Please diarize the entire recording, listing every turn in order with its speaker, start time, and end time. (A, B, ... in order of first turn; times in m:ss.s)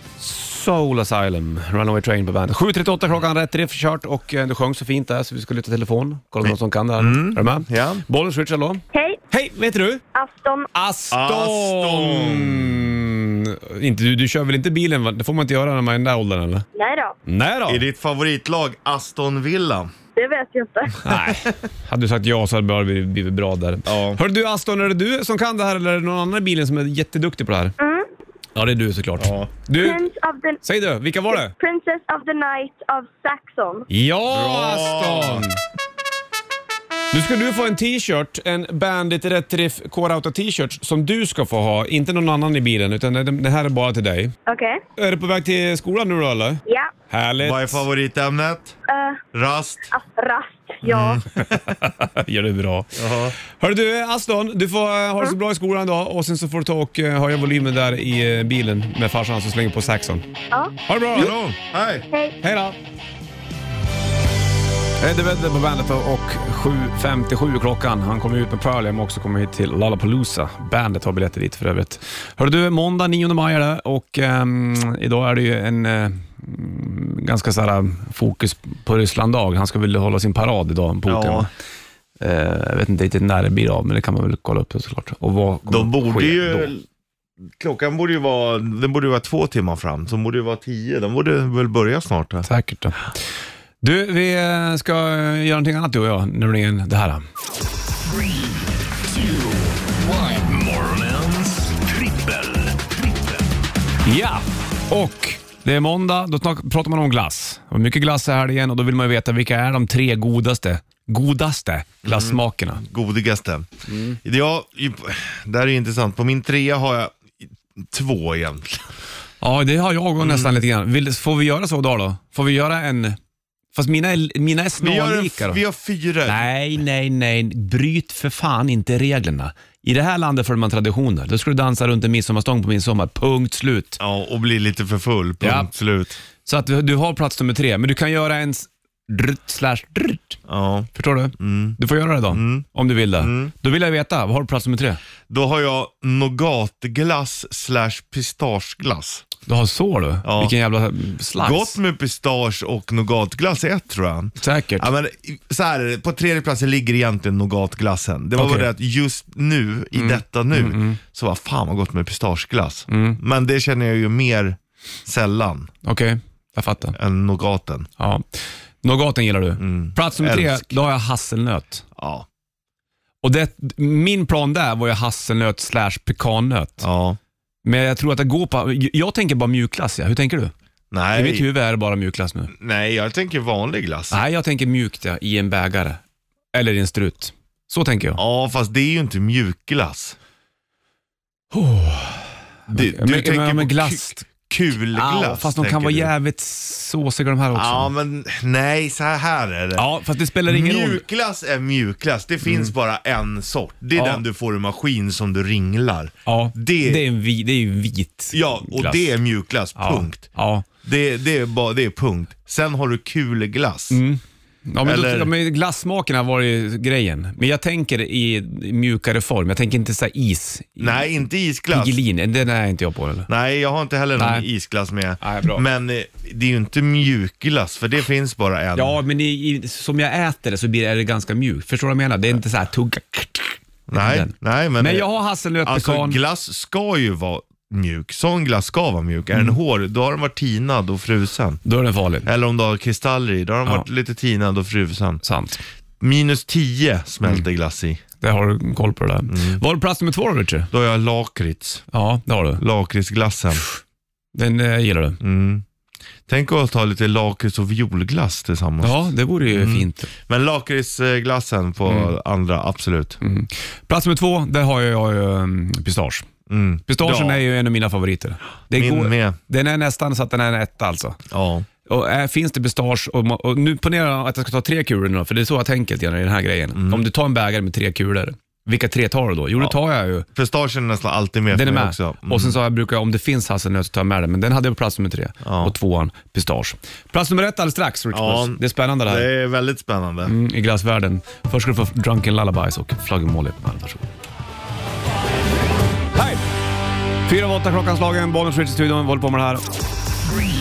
0:00.2-0:10.0 A
0:06.4-0:08.0 B
0:08.9-0:09.2 C
0:10.1-0:10.7 C
0:10.7-0:16.6 A
0:11.1-0:12.8 B
0:16.8-0:17.2 C
0:17.3-0:17.8 A
0:17.7-0:19.9 B
0:20.2-0:21.0 C
0:21.0-0:27.8 A
0:23.9-0:24.2 B
0:27.8-0:28.1 C
0:28.6-0:30.0 A
0:29.2-0:29.5 B
0:29.8-0:30.6 C
0:30.6-0:31.6 A
0:31.5-0:33.9 C
0:33.9-0:35.6 A
0:34.3-0:35.5 B
0:37.1-0:44.3 A
0:44.5-0:44.8 C
0:45.0-0:47.8 A
0:46.7-0:46.9 C
0:47.4-0:48.8 B
0:48.9-0:49.2 C
0:49.3-0:49.9 B
0:49.9-0:51.2 C
0:50.8-0:51.6 B
0:51.4-1:00.3 A
0:53.0-0:53.4 B
1:00.9-1:01.4 A
1:01.1-1:02.1 B
1:02.1-1:02.4 C
1:02.4-1:02.8 A
1:05.0-1:21.5 A
1:21.1-1:21.5 B
1:22.2-1:26.7 A
1:25.7-1:26.8 B
1:27.6-1:32.5 B
1:32.4-1:33.1 A
1:33.8-1:37.2 A
1:39.1-1:43.4 D
1:44.0-1:52.8 A
1:52.0-1:53.7 B
1:53.9-1:54.2 A
1:54.2-1:58.9 B
1:59.4-2:03.2 A
2:00.2-2:00.5 B
2:03.7-2:05.6 A
2:04.8-2:06.4 B
2:06.2-2:14.0 A
2:14.0-2:16.2 B
2:15.4-2:15.7 A
2:16.4-2:20.4 A
2:20.5-2:21.8 B
2:20.9-2:25.0 A
2:22.3-2:22.7 B
2:23.2-2:23.5 B
2:25.3-2:29.3 B
2:29.5-2:31.8 A
2:30.2-2:30.5 B
2:31.4-2:45.7 B
2:34.4-2:34.9 A
2:38.4-2:38.7 A
2:40.0-2:41.0 A
2:42.9-2:43.2 A
2:45.8-2:47.0 A
2:47.0-2:47.9 B
2:48.0-2:48.2 A
2:48.8-2:51.8 A
2:49.6-2:50.8 B
2:52.0-2:52.3 B
2:53.2-2:56.9 A
2:56.8-2:57.2 B
2:57.6-3:00.5 A
3:00.9-3:01.5 B
3:01.1-3:02.5 A
3:02.5-3:04.2 B
3:04.1-3:06.0 A
3:06.5-3:08.2 A
3:08.2-3:10.2 B
3:11.5-3:14.3 A
3:12.7-3:16.1 B
3:14.9-3:17.9 A
3:17.5-3:19.9 B
3:19.8-3:21.0 A
3:20.5-3:27.0 B
3:22.5-3:22.7 A
3:24.0-3:24.2 A
3:26.3-3:29.1 A
3:28.3-3:30.3 B
3:29.8-3:30.7 A
3:30.8-3:34.0 B
3:33.9-3:41.1 A
3:34.8-3:35.3 B
3:40.8-3:42.0 B
3:41.7-3:43.3 A
3:43.3-3:49.0 B
3:44.2-3:44.5 A
3:45.2-3:45.6 A
3:48.8-3:56.2 A
3:53.9-3:55.1 B
3:55.6-4:01.6 B
4:01.6-4:02.3 A
4:02.2-4:05.2 B
4:05.2-4:05.6 A
4:06.0-4:08.0 B
4:08.2-4:10.7 A
4:09.3-4:09.6 B
4:10.7-4:11.8 B
4:11.9-4:12.6 A
4:12.6-4:13.6 B
4:14.3-4:15.2 A
4:15.2-4:15.6 B
4:16.3-4:23.2 B
4:18.8-4:20.1 A
4:21.9-4:22.1 A
4:23.2-4:26.3 A
4:26.5-4:27.4 B
4:26.9-4:31.2 A
4:28.8-4:29.4 B
4:31.3-4:31.7 B
4:31.9-4:40.3 A
4:36.8-4:37.0 B
4:40.4-4:42.6 B
4:41.5-4:49.3 A
4:45.4-4:45.8 B
4:48.1-4:50.4 B
4:50.2-4:54.1 A
4:56.2-4:56.4 A
4:57.3-4:59.7 A